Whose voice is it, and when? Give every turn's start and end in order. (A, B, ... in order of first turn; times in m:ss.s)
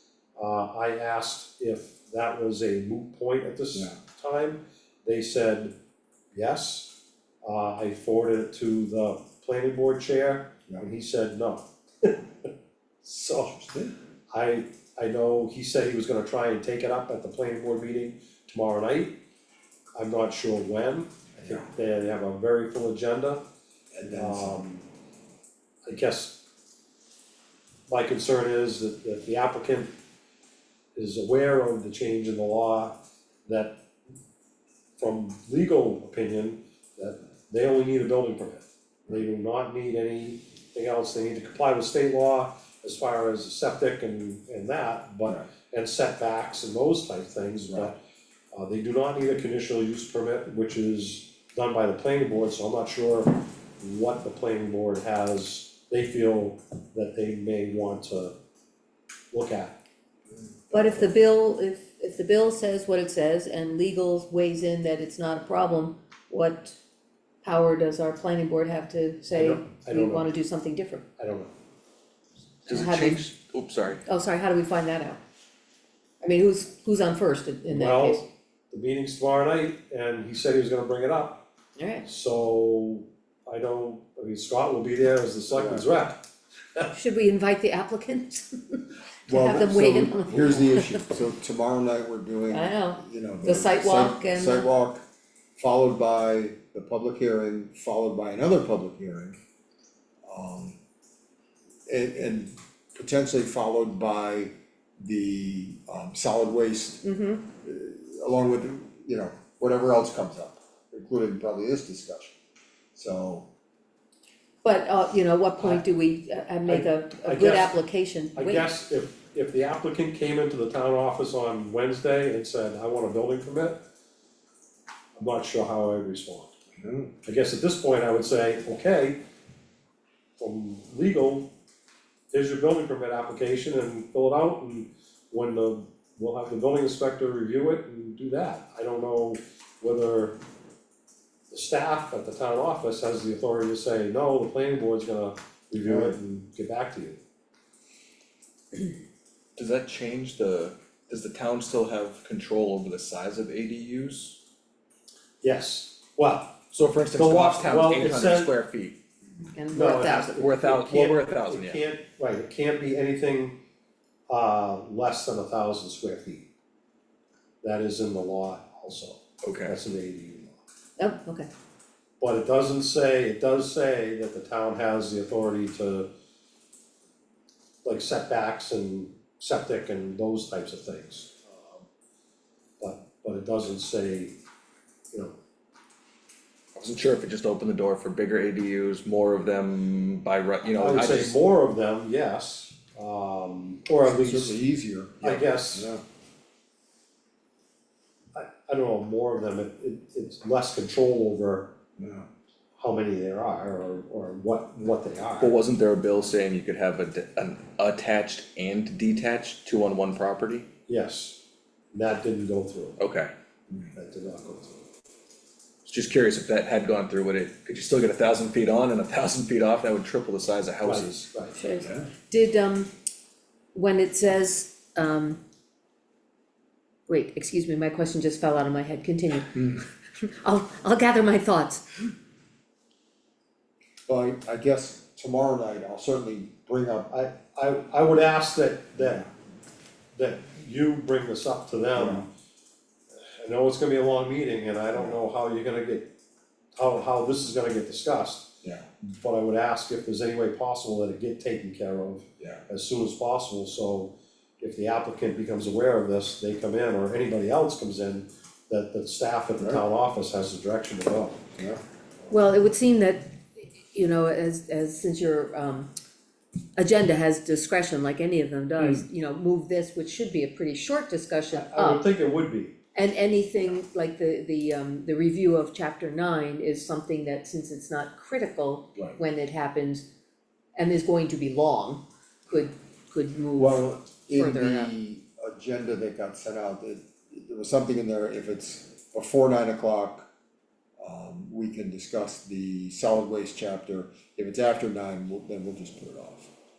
0:00.4-0:05.7 A
0:06.3-0:06.9 A
0:07.4-0:12.5 A
0:13.0-0:13.7 A
0:14.3-0:19.2 A
0:19.9-0:23.4 A
0:23.9-0:24.6 B
0:24.1-0:24.9 A
0:25.9-0:26.4 A
0:27.9-0:29.9 A
0:30.9-0:33.8 A
0:35.0-0:48.0 A
0:47.7-0:47.9 B
0:48.5-0:58.4 A
0:59.3-0:59.7 A
1:00.7-1:06.8 C
1:07.4-1:11.1 C
1:09.3-1:10.3 A
1:11.2-1:11.5 A
1:12.6-1:13.2 C
1:12.7-1:14.0 D
1:14.0-1:15.2 C
1:16.2-1:18.2 C
1:17.7-1:21.4 A
1:21.8-1:22.0 C
1:22.0-1:26.2 A
1:25.5-1:25.8 B
1:26.9-1:31.0 C
1:29.3-1:35.0 B
1:32.5-1:34.7 C
1:35.6-1:39.4 B
1:40.2-1:40.8 B
1:41.9-1:52.4 B
1:47.0-1:47.4 C
1:52.9-1:53.5 B
1:54.6-1:58.7 C
1:55.6-1:55.8 A
1:56.6-1:57.8 A
1:58.4-2:03.8 A
2:05.2-2:06.5 A
2:06.8-2:07.1 B
2:07.2-2:09.2 A
2:10.4-2:11.5 A
2:12.3-2:20.3 A
2:21.5-2:27.2 A
2:25.8-2:26.2 B
2:29.6-2:34.4 D
2:35.4-2:36.6 A
2:36.7-2:39.0 D
2:37.1-2:38.5 A
2:39.5-2:40.4 C
2:39.7-2:43.6 A
2:40.4-2:41.8 D
2:44.3-2:46.5 A
2:47.6-2:50.6 A
2:49.4-2:49.7 D
2:51.0-2:51.5 C
2:52.2-2:56.1 A
2:57.8-3:01.4 A
3:02.8-3:04.4 A
3:06.8-3:11.4 D
3:10.7-3:14.6 A
3:14.0-3:16.0 B
3:15.2-3:15.9 A
3:18.3-3:21.7 A
3:22.0-3:22.3 B
3:22.8-3:25.6 A
3:25.4-3:30.7 D
3:30.9-3:31.4 A
3:31.9-3:33.0 A
3:33.0-3:33.3 D
3:33.9-3:34.8 A
3:35.8-3:41.3 D
3:40.8-3:41.6 A
3:41.5-3:42.9 C
3:41.8-3:42.0 D
3:43.7-3:45.4 C
3:47.1-3:52.1 C
3:54.1-3:57.1 B
3:57.1-3:59.3 A
3:59.0-3:59.2 B
4:00.1-4:02.3 A
4:02.0-4:02.2 B
4:03.2-4:06.1 A
4:06.8-4:21.5 A
4:22.3-4:25.9 C
4:26.8-4:32.0 C
4:31.5-4:32.7 A
4:32.9-4:40.0 C
4:40.8-4:44.9 C
4:43.6-4:50.3 B
4:51.0-4:56.5 B